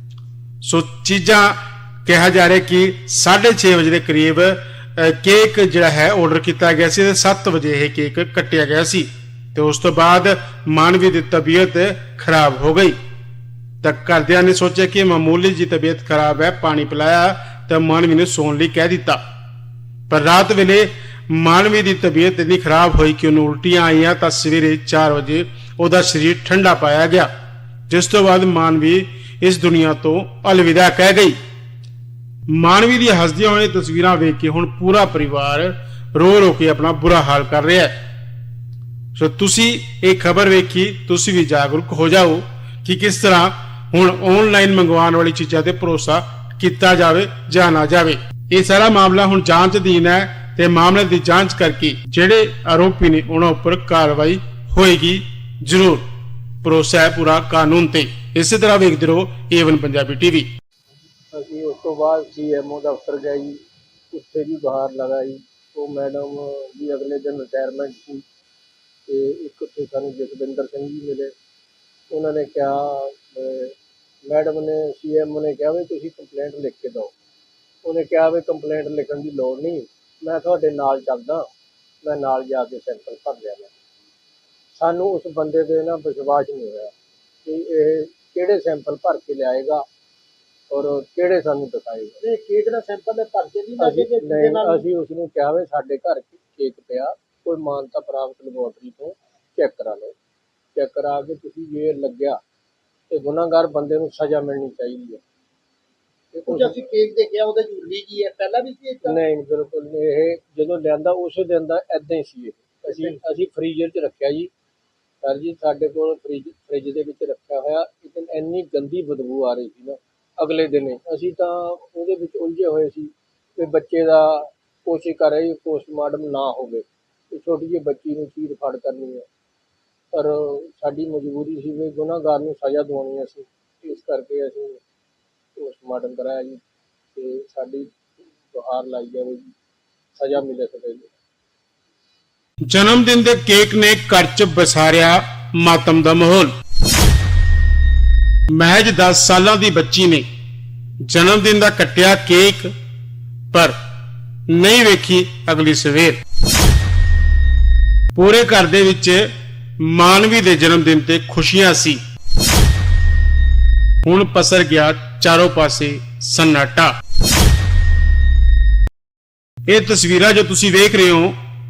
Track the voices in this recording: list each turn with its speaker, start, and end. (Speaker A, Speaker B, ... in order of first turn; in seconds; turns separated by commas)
Speaker A: 0.6-13.0, Speaker A: 13.8-19.2, Speaker A: 20.1-27.3, Speaker A: 27.9-31.4, Speaker A: 32.5-37.9, Speaker A: 39.2-56.0, Speaker A: 56.6-60.5, Speaker B: 61.3-63.6, Speaker B: 64.1-68.2, Speaker B: 69.1-71.3, Speaker B: 72.1-77.1, Speaker B: 77.8-81.5, Speaker B: 82.0-83.7, Speaker B: 84.8-86.9, Speaker B: 87.5-89.8, Speaker B: 90.7-92.2, Speaker C: 92.2-94.8, Speaker B: 93.8-100.2, Speaker B: 100.8-102.4, Speaker B: 103.1-105.2, Speaker B: 106.3-106.8, Speaker C: 106.5-109.2, Speaker B: 109.0-114.5, Speaker B: 115.2-129.3, Speaker B: 130.1-134.8, Speaker B: 135.6-136.6, Speaker B: 137.2-139.5, Speaker B: 140.2-141.1, Speaker A: 142.7-146.5, Speaker A: 148.5-150.3, Speaker A: 151.0-152.7, Speaker A: 154.5-156.2, Speaker A: 158.2-159.3, Speaker A: 159.8-162.0, Speaker A: 164.0-167.0, Speaker A: 169.7-171.4